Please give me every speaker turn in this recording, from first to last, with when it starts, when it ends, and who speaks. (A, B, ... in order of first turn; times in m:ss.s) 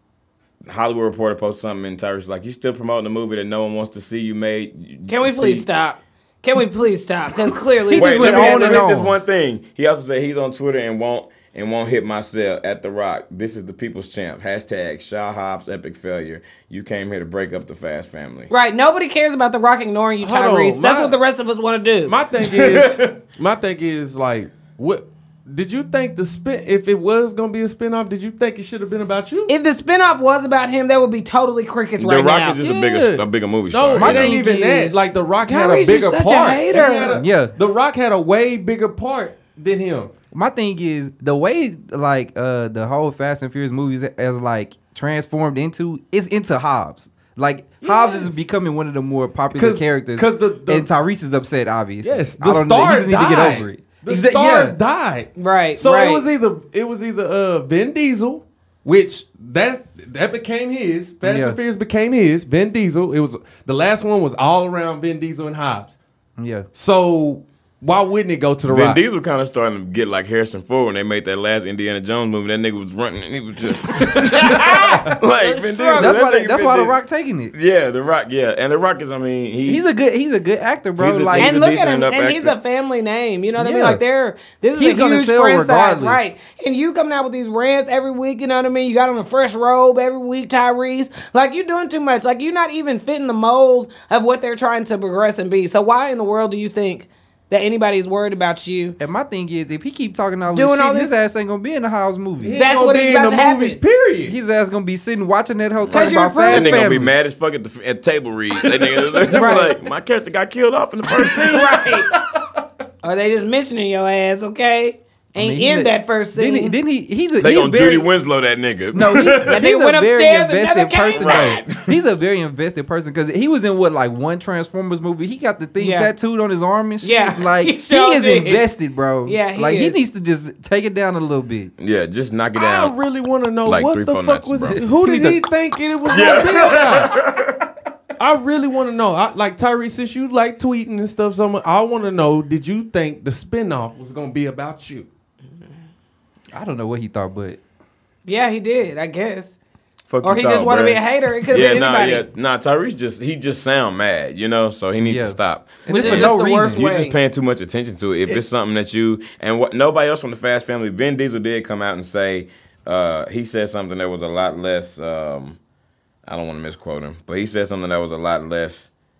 0:00.7-0:05.7 A
0:05.1-0:08.8 B
0:07.9-0:09.1 C
0:08.0-0:18.5 A
0:18.5-0:22.2 B
0:20.2-0:21.2 D
0:22.0-0:29.5 D
0:22.6-0:23.1 A
0:29.5-0:32.6 B
0:32.0-0:34.3 A
0:32.6-0:40.1 D
0:34.0-0:35.0 C
0:35.4-0:37.2 B
0:37.1-0:37.5 C
0:40.3-0:54.8 C
0:47.8-0:48.3 D
0:49.5-0:50.9 D
0:52.0-1:06.0 D
0:55.4-0:56.3 B
1:01.2-1:01.6 C
1:06.4-1:06.7 C
1:06.7-1:09.0 D
1:08.7-1:17.0 A
1:14.2-1:16.2 B
1:16.0-1:17.5 C
1:17.5-1:19.8 A
1:19.6-1:21.6 C
1:21.0-1:22.5 A
1:21.4-1:39.0 B
1:23.6-1:24.0 C
1:24.8-1:26.3 C
1:39.0-1:42.6 C
1:40.5-1:41.2 B
1:42.4-1:44.4 D
1:42.5-1:43.8 B
1:44.2-1:47.1 C
1:45.8-1:51.8 A
1:45.9-1:46.8 B
1:49.3-1:49.8 B
1:51.5-1:52.1 B
1:53.0-1:56.8 B
1:55.4-1:58.1 C
1:57.4-1:59.6 A
1:58.9-2:11.7 C
1:59.4-2:01.6 B
2:01.2-2:01.8 A
2:05.8-2:06.1 B
2:07.0-2:08.7 B
2:09.2-2:10.0 B
2:11.8-2:12.9 A
2:12.6-2:17.3 D
2:13.6-2:14.8 A
2:14.7-2:15.5 C
2:16.1-2:17.6 A
2:18.2-2:25.1 D
2:26.5-2:27.6 C
2:28.2-2:29.6 B
2:30.1-2:45.6 A
2:30.2-2:32.2 B
2:35.0-2:36.8 C
2:35.9-2:37.2 B
2:46.2-2:48.9 A